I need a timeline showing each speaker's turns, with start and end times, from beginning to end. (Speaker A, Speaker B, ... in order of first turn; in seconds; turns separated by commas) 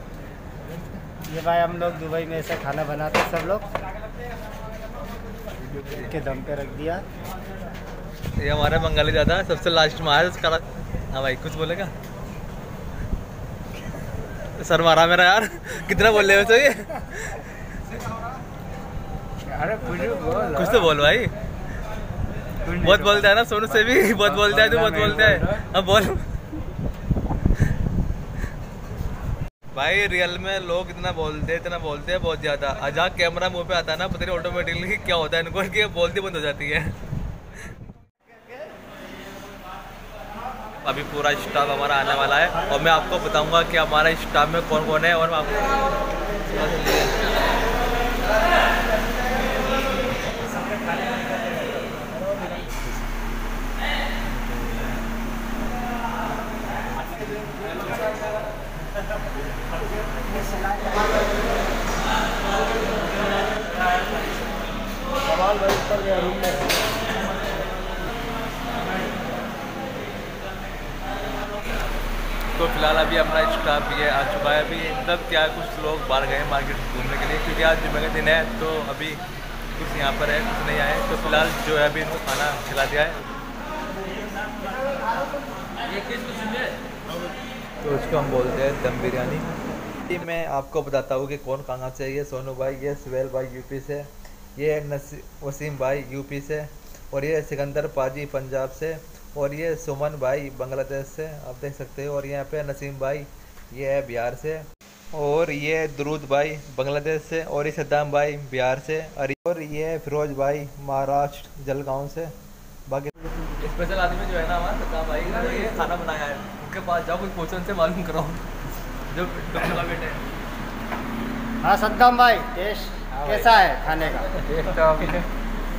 Speaker A: 1.3-3.6, Speaker A: 5.9-7.0, Speaker B: 8.4-11.9, Speaker B: 14.6-17.1, Speaker C: 19.4-20.9, Speaker B: 20.5-21.3, Speaker C: 22.6-23.3, Speaker B: 22.8-26.2, Speaker C: 24.0-25.6, Speaker B: 29.7-36.9, Speaker B: 40.8-45.8, Speaker B: 46.5-47.1, Speaker B: 72.5-79.2, Speaker B: 79.8-83.3, Speaker B: 87.8-89.5, Speaker B: 90.1-112.3, Speaker B: 112.9-118.4, Speaker B: 119.1-120.2, Speaker A: 121.6-124.3, Speaker C: 123.1-123.5, Speaker C: 124.4-125.2